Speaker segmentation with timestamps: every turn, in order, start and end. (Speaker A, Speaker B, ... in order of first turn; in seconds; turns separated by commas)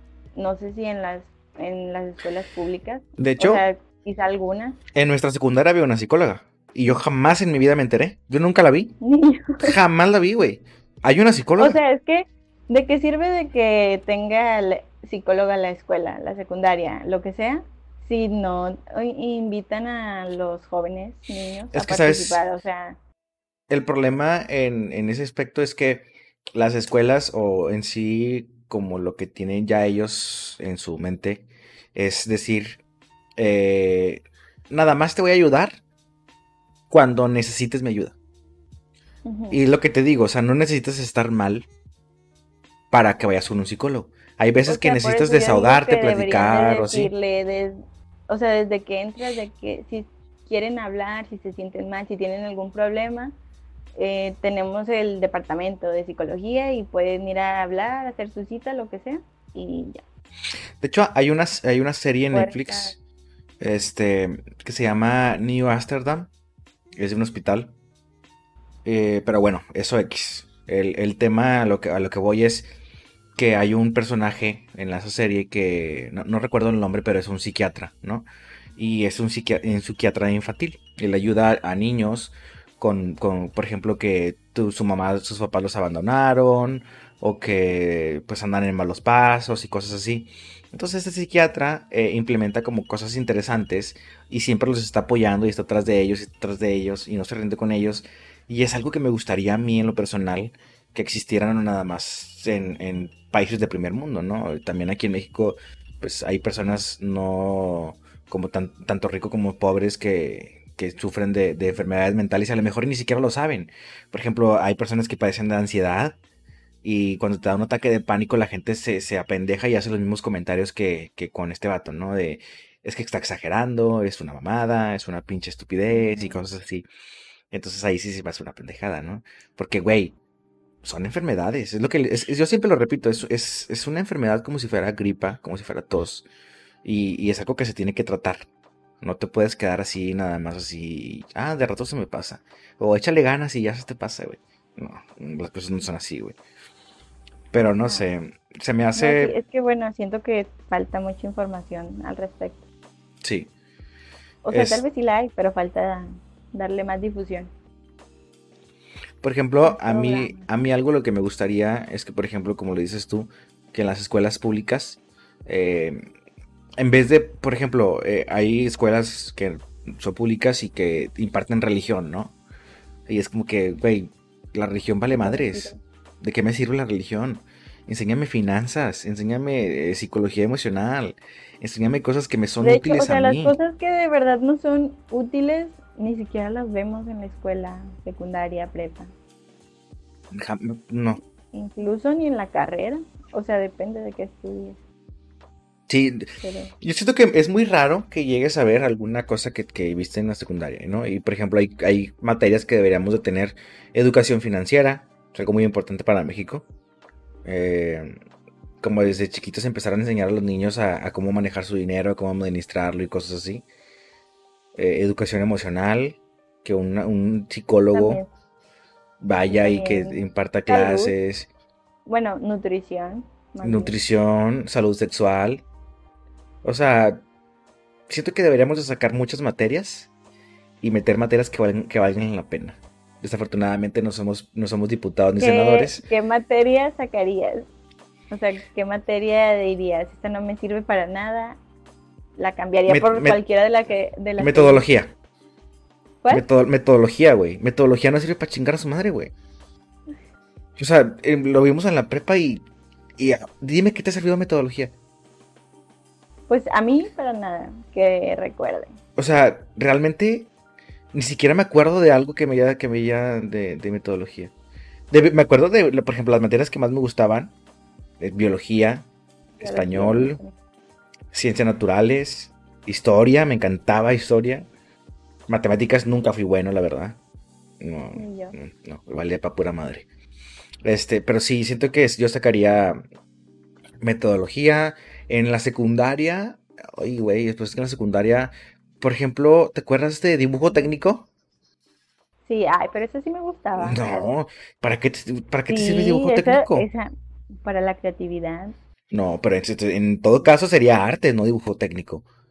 Speaker A: 0.3-4.8, Speaker B: 3.2-3.6, Speaker B: 5.0-9.0, Speaker A: 9.0-9.8, Speaker B: 9.6-11.8, Speaker A: 11.6-23.0, Speaker B: 21.7-22.4, Speaker B: 23.7-32.8, Speaker B: 33.4-35.8, Speaker B: 36.9-38.1, Speaker A: 39.3-39.6, Speaker B: 39.5-41.7, Speaker B: 42.9-47.1, Speaker A: 44.7-47.7, Speaker A: 48.3-53.3, Speaker A: 54.0-60.0, Speaker B: 60.8-63.0, Speaker A: 62.3-63.0, Speaker B: 63.6-66.3, Speaker B: 67.0-67.7, Speaker B: 68.8-72.7, Speaker B: 73.4-116.2, Speaker B: 116.8-126.9, Speaker A: 125.9-126.4, Speaker B: 127.5-130.2, Speaker B: 130.8-136.3, Speaker B: 136.8-138.5, Speaker B: 139.0-146.4, Speaker B: 147.5-149.4, Speaker A: 149.0-152.7, Speaker B: 153.2-153.5, Speaker A: 154.4-157.5, Speaker B: 154.5-154.8, Speaker B: 159.2-166.0, Speaker A: 159.6-160.5, Speaker B: 166.8-172.4, Speaker B: 173.1-183.6, Speaker A: 175.1-175.8, Speaker A: 182.6-189.1, Speaker B: 190.3-191.2, Speaker A: 191.5-194.8, Speaker B: 195.9-196.3, Speaker A: 196.4-196.7, Speaker B: 196.8-206.7, Speaker B: 207.4-208.1, Speaker B: 208.8-213.7, Speaker B: 214.8-218.2, Speaker A: 217.9-218.3, Speaker B: 219.2-221.5, Speaker A: 219.5-221.1, Speaker A: 222.1-224.0, Speaker B: 223.6-225.6, Speaker B: 226.6-227.2, Speaker B: 228.1-230.1, Speaker B: 230.8-236.1, Speaker A: 235.4-237.7, Speaker A: 238.3-241.6, Speaker A: 242.4-244.9, Speaker B: 242.9-243.4, Speaker B: 244.4-245.1, Speaker B: 246.3-249.3, Speaker B: 250.8-252.6, Speaker B: 253.2-254.9, Speaker A: 256.5-259.0, Speaker B: 259.2-260.5, Speaker B: 261.1-264.5, Speaker B: 265.1-267.5, Speaker B: 268.2-269.1, Speaker A: 269.6-270.5, Speaker B: 269.6-270.4, Speaker B: 271.3-274.7, Speaker B: 275.5-277.2, Speaker B: 277.8-280.1, Speaker A: 278.1-278.6, Speaker B: 280.9-283.0, Speaker B: 284.0-291.3, Speaker A: 292.5-294.3, Speaker B: 293.8-296.9, Speaker A: 295.7-297.1, Speaker A: 297.6-298.7, Speaker B: 299.1-302.2